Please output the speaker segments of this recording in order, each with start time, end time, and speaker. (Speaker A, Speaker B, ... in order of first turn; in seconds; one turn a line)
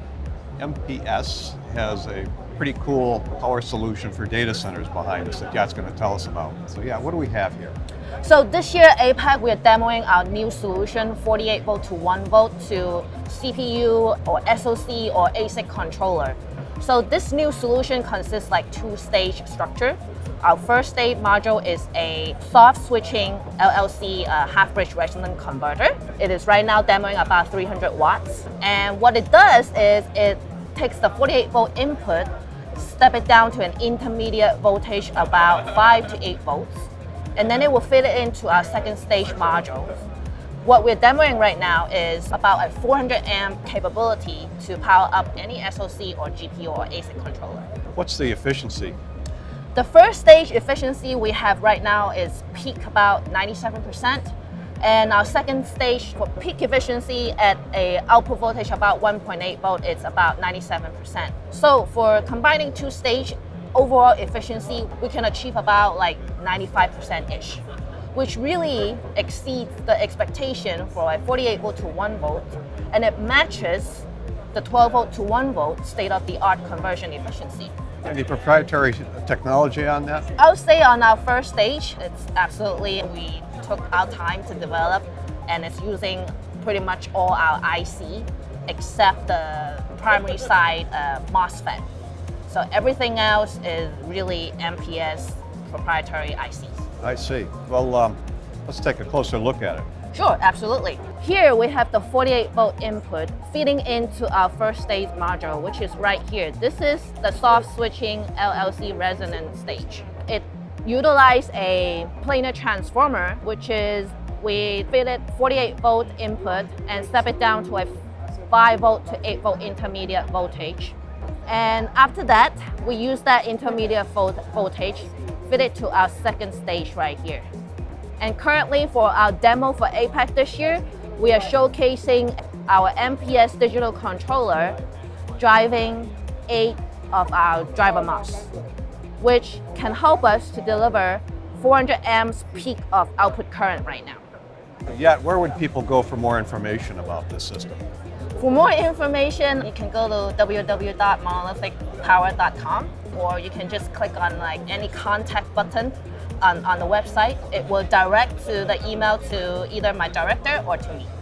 Speaker A: 0.6-7.8
Speaker B: 8.2-40.0
Speaker B: 40.6-47.7
Speaker A: 47.9-49.0
Speaker B: 49.7-67.6
Speaker B: 68.1-77.7
Speaker A: 78.0-80.3
Speaker B: 80.4-91.8
Speaker B: 92.5-96.8
Speaker A: 97.0-99.8
Speaker B: 100.1-117.9
Speaker B: 118.5-120.9
Speaker B: 121.5-127.4
Speaker B: 128.2-134.8
Speaker B: 135.4-138.5
Speaker B: 139.2-144.2
Speaker A: 144.9-147.8
Speaker B: 148.4-161.1